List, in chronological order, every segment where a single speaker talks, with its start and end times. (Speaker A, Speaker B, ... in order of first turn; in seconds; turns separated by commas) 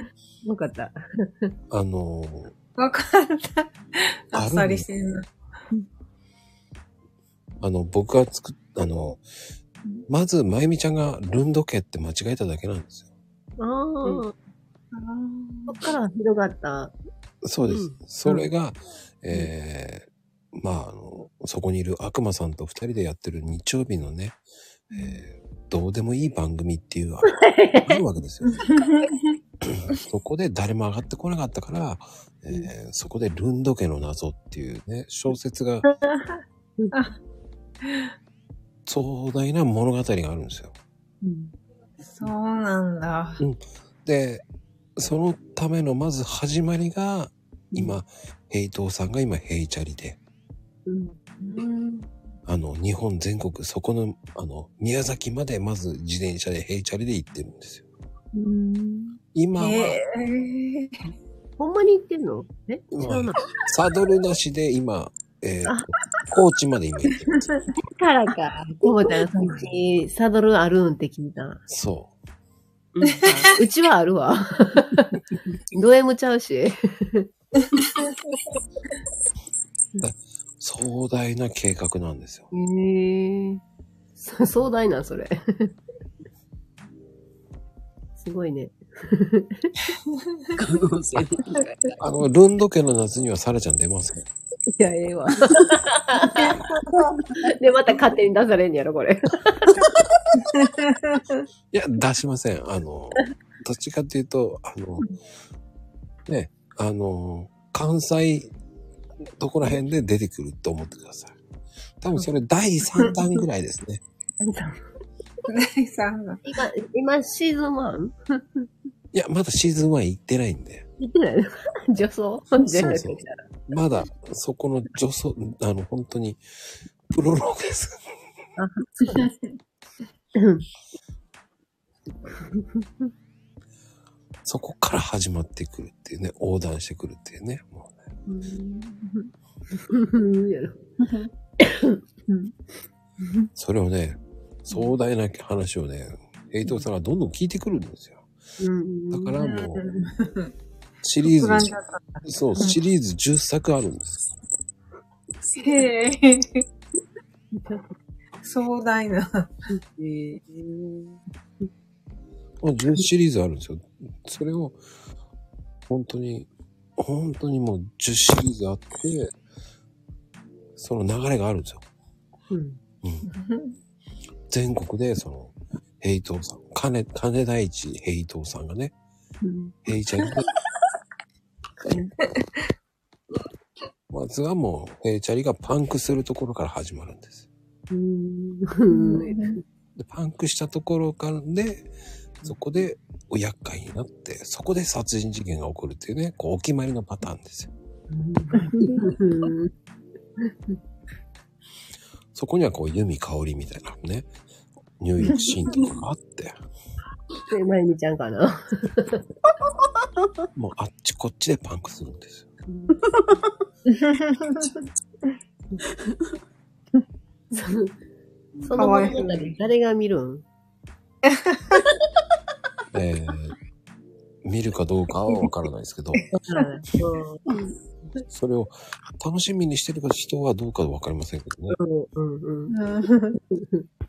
Speaker A: 0.4-1.5, Speaker B: 1.7-2.5, Speaker C: 2.8-5.3, Speaker B: 4.3-4.9, Speaker B: 7.6-9.2, Speaker B: 10.1-13.1, Speaker A: 13.6-14.3, Speaker C: 14.9-15.8, Speaker A: 15.7-16.9, Speaker B: 17.4-28.7, Speaker D: 17.7-18.0, Speaker A: 27.3-28.0, Speaker C: 28.4-29.4, Speaker B: 29.6-35.9, Speaker B: 38.9-40.8, Speaker A: 41.2-41.5, Speaker C: 42.2-43.4, Speaker B: 43.4-44.4, Speaker B: 45.0-50.2, Speaker A: 50.9-52.0, Speaker B: 52.5-57.8, Speaker A: 58.3-59.2, Speaker B: 59.3-60.0, Speaker C: 59.6-61.0, Speaker A: 61.6-63.5, Speaker B: 62.9-67.5, Speaker A: 67.8-71.6, Speaker B: 71.7-72.1, Speaker D: 72.9-73.6, Speaker C: 73.2-73.5, Speaker A: 73.4-77.3, Speaker C: 77.7-78.4, Speaker B: 80.0-82.5, Speaker A: 82.5-83.6, Speaker A: 84.2-85.8, Speaker A: 88.2-89.7, Speaker D: 90.5-92.0, Speaker B: 92.0-94.2, Speaker A: 94.7-96.6, Speaker C: 96.3-97.2, Speaker A: 97.4-99.8, Speaker C: 100.5-101.4, Speaker B: 101.7-105.1, Speaker B: 106.3-108.5, Speaker B: 109.2-111.4, Speaker B: 112.0-114.0, Speaker A: 114.4-114.8, Speaker C: 115.5-116.4, Speaker A: 116.5-118.7, Speaker B: 119.1-120.8, Speaker A: 121.0-123.4, Speaker B: 122.6-126.4, Speaker B: 127.1-128.0, Speaker A: 128.6-129.3, Speaker C: 129.1-129.4, Speaker A: 130.3-130.7, Speaker A: 132.2-133.1, Speaker B: 134.4-138.0, Speaker A: 138.3-140.8, Speaker C: 141.0-141.3, Speaker A: 141.6-142.5, Speaker A: 143.2-143.5, Speaker B: 143.6-148.2, Speaker A: 148.6-149.4, Speaker B: 149.1-149.8, Speaker C: 149.4-150.5, Speaker B: 151.0-151.7, Speaker C: 151.2-152.8, Speaker B: 152.2-154.3, Speaker C: 155.6-156.6, Speaker A: 157.5-157.8, Speaker C: 158.4-159.5, Speaker A: 159.9-161.1, Speaker B: 162.6-164.8, Speaker B: 165.9-169.3, Speaker B: 170.8-171.8, Speaker A: 172.5-172.8, Speaker C: 173.3-173.7, Speaker B: 174.5-178.9, Speaker A: 179.4-179.7, Speaker B: 179.8-180.4, Speaker A: 181.8-182.1, Speaker B: 184.1-187.4, Speaker A: 187.9-189.6, Speaker C: 188.9-189.6, Speaker B: 190.0-191.9, Speaker B: 192.4-197.7, Speaker A: 198.1-199.7, Speaker C: 198.6-199.2, Speaker B: 202.3-204.3, Speaker B: 205.0-206.6, Speaker A: 207.4-209.3, Speaker B: 210.5-212.5, Speaker A: 212.7-213.0, Speaker D: 212.9-213.5, Speaker C: 213.9-214.7, Speaker A: 217.5-217.9, Speaker A: 218.6-220.4, Speaker C: 218.8-219.6, Speaker C: 221.3-221.8, Speaker B: 222.9-223.6, Speaker B: 224.4-226.3, Speaker A: 226.3-227.4, Speaker B: 228.3-231.8, Speaker A: 231.7-232.7, Speaker C: 232.7-233.4, Speaker A: 233.5-233.8